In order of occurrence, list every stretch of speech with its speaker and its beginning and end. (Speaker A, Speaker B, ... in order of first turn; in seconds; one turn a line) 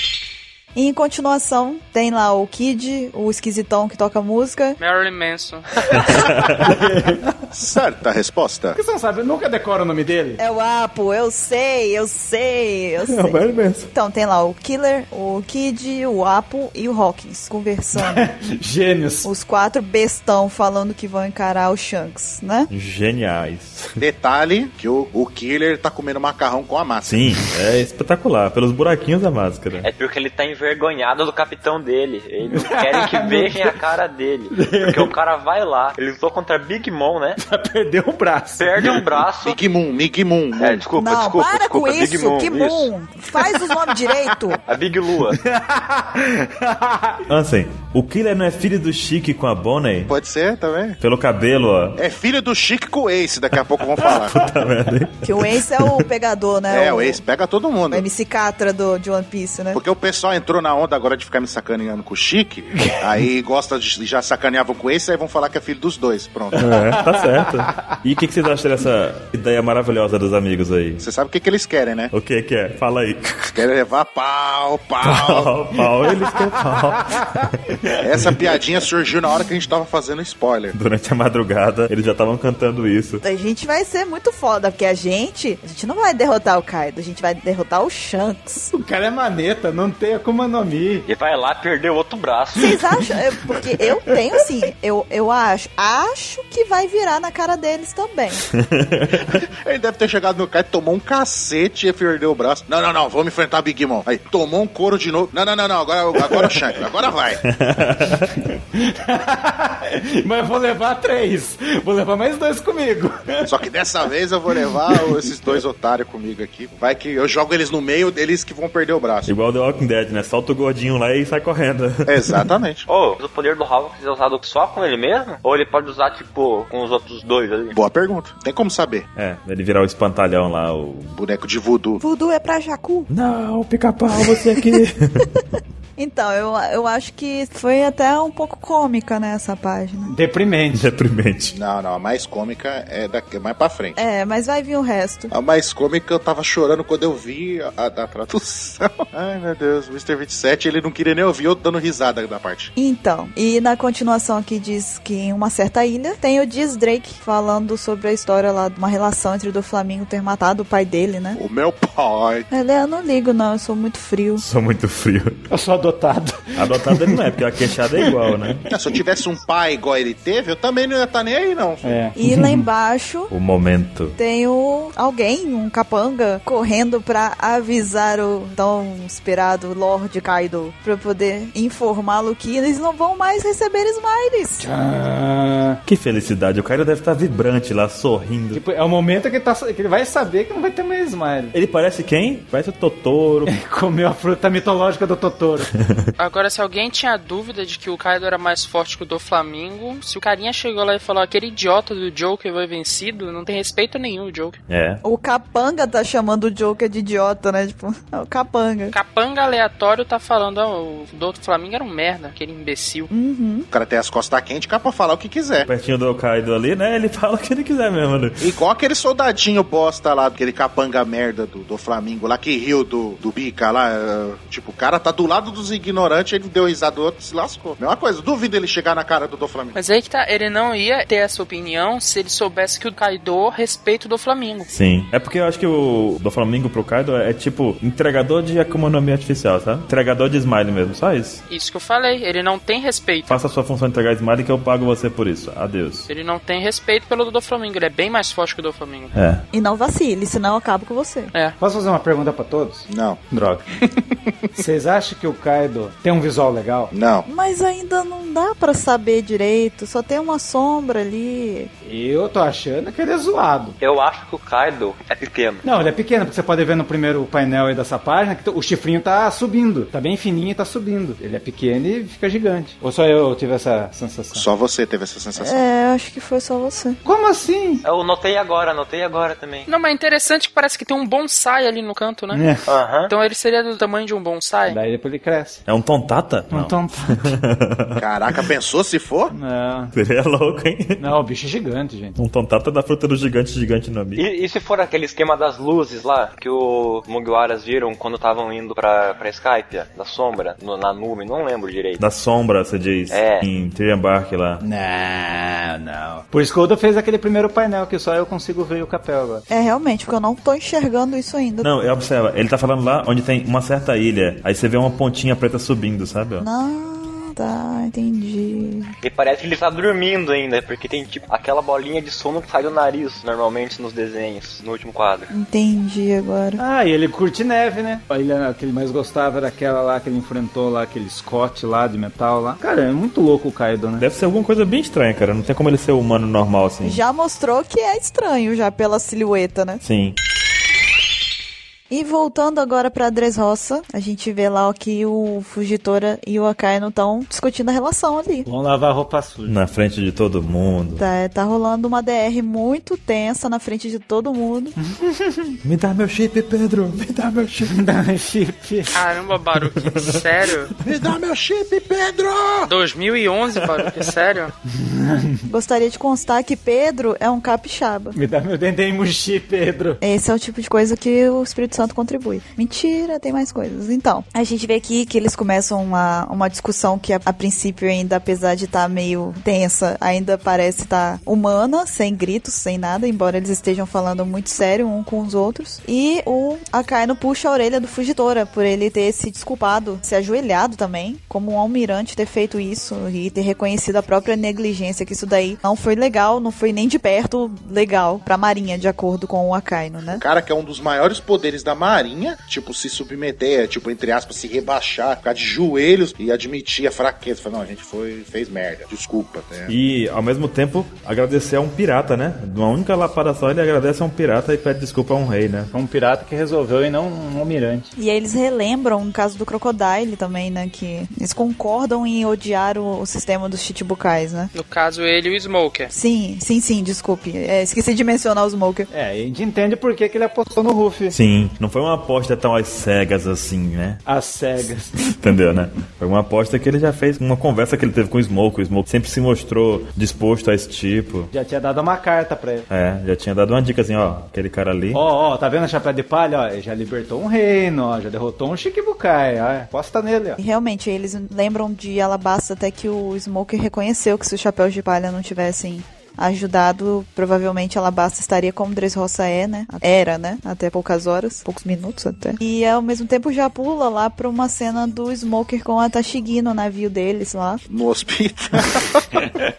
Speaker A: 0.8-4.8
Speaker B: 4.8-5.7
Speaker C: 5.9-7.4
Speaker D: 6.1-6.8
Speaker E: 7.5-8.8
Speaker C: 8.8-10.4
Speaker A: 10.4-13.4
Speaker D: 13.0-13.9
Speaker A: 13.9-18.3
Speaker C: 18.0-19.3
Speaker A: 19.2-22.7
Speaker D: 22.7-24.0
Speaker E: 24.0-27.3
Speaker D: 27.1-29.9
Speaker F: 29.8-37.4
Speaker C: 32.5-33.8
Speaker C: 34.5-35.1
Speaker C: 37.4-39.1
Speaker F: 38.6-39.6
Speaker E: 39.4-40.9
Speaker F: 40.5-42.9
Speaker A: 41.0-44.6
Speaker C: 43.4-44.1
Speaker F: 44.7-45.4
Speaker C: 45.2-47.2
Speaker D: 47.3-50.1
Speaker E: 50.1-51.0
Speaker D: 51.0-52.0
Speaker E: 52.0-54.4
Speaker D: 54.0-56.1
Speaker A: 55.2-57.2
Speaker E: 56.7-58.0
Speaker A: 57.9-59.8
Speaker E: 59.7-66.7
Speaker C: 62.8-63.0
Speaker D: 66.5-71.0
Speaker C: 66.9-68.0
Speaker E: 71.0-72.1
Speaker D: 72.1-73.6
Speaker E: 73.5-75.5
Speaker D: 75.0-78.4
Speaker C: 76.8-77.3
Speaker E: 78.0-80.7
Speaker D: 80.7-83.2
Speaker A: 83.2-88.7
Speaker C: 88.7-91.1
Speaker F: 91.1-92.8
Speaker A: 92.6-98.5
Speaker D: 98.5-99.4
Speaker E: 99.2-107.4
Speaker D: 107.5-108.4
Speaker C: 108.3-113.5
Speaker E: 113.5-119.3
Speaker D: 119.3-122.5
Speaker E: 122.1-122.9
Speaker F: 122.9-127.8
Speaker E: 127.7-129.1
Speaker D: 129.2-131.2
Speaker E: 131.2-132.0
Speaker A: 132.0-133.1
Speaker D: 133.1-135.3
Speaker A: 134.2-134.8
Speaker A: 136.0-140.1
Speaker C: 140.1-140.9
Speaker D: 140.7-141.6
Speaker E: 141.6-144.0
Speaker A: 144.0-145.3
Speaker E: 145.3-152.7
Speaker A: 152.8-161.4
Speaker E: 161.4-162.5
Speaker A: 162.5-164.4
Speaker D: 164.4-165.4
Speaker C: 165.5-167.2
Speaker D: 166.6-168.7
Speaker E: 168.7-172.0
Speaker C: 171.8-172.7
Speaker A: 172.2-173.3
Speaker D: 173.3-174.2
Speaker A: 174.2-184.7
Speaker C: 184.6-185.8
Speaker D: 185.9-188.6
Speaker C: 188.5-191.6
Speaker D: 191.5-193.5
Speaker C: 193.5-195.7
Speaker D: 195.8-196.1
Speaker B: 196.2-204.6
Speaker D: 204.7-205.0
Speaker A: 205.0-208.9
Speaker B: 208.9-213.1
Speaker A: 213.1-213.7
Speaker E: 213.7-215.7
Speaker D: 215.7-218.5
Speaker E: 218.4-229.8
Speaker B: 229.7-234.7
Speaker D: 234.7-241.4
Speaker B: 241.5-243.4
Speaker D: 243.3-246.1
Speaker B: 246.1-249.1
Speaker D: 249.1-249.4
Speaker A: 249.5-251.3
Speaker C: 251.6-253.7
Speaker E: 252.9-253.2
Speaker C: 254.6-256.9
Speaker E: 256.9-257.3
Speaker A: 257.3-261.7
Speaker C: 261.8-263.8
Speaker F: 263.8-265.6
Speaker C: 265.6-274.4
Speaker E: 274.4-275.6
Speaker A: 275.4-277.0
Speaker C: 277.0-277.8
Speaker F: 277.8-279.7
Speaker B: 279.7-282.4
Speaker C: 282.3-282.7
Speaker F: 282.7-283.1
Speaker B: 283.1-284.8
Speaker C: 284.7-285.6
Speaker D: 285.7-288.5
Speaker C: 286.5-287.3
Speaker E: 288.0-289.3
Speaker C: 289.3-289.9
Speaker D: 289.9-291.0
Speaker C: 291.0-292.2
Speaker D: 292.2-294.2
Speaker F: 294.2-302.0
Speaker D: 302.0-304.6
Speaker F: 303.1-303.5
Speaker C: 304.6-309.4
Speaker A: 309.5-311.7
Speaker D: 311.6-316.5
Speaker A: 316.4-318.9
Speaker F: 319.0-325.3
Speaker A: 325.3-326.6
Speaker C: 326.6-334.1
Speaker D: 334.0-337.0
Speaker A: 336.8-339.8
Speaker D: 339.8-340.2
Speaker A: 341.9-348.5
Speaker C: 348.4-349.6
Speaker D: 349.5-351.0
Speaker A: 351.0-354.8
Speaker C: 354.8-355.6
Speaker D: 355.6-357.7
Speaker C: 357.6-358.9
Speaker B: 358.9-360.7
Speaker D: 359.9-360.2
Speaker E: 360.8-362.7
Speaker B: 362.6-364.5
Speaker C: 364.7-365.4
Speaker A: 365.5-368.2
Speaker C: 368.1-370.0
Speaker A: 370.0-400.2
Speaker E: 400.1-409.7
Speaker D: 409.7-415.7
Speaker C: 415.7-417.9
Speaker A: 418.0-424.5
Speaker B: 424.5-425.9
Speaker A: 425.9-428.9
Speaker C: 428.9-431.1
Speaker D: 431.1-434.0
Speaker C: 434.1-435.1
Speaker D: 435.0-441.3
Speaker C: 441.3-442.7
Speaker D: 442.7-445.0
Speaker C: 444.9-450.4
Speaker A: 450.4-467.6
Speaker E: 467.7-469.3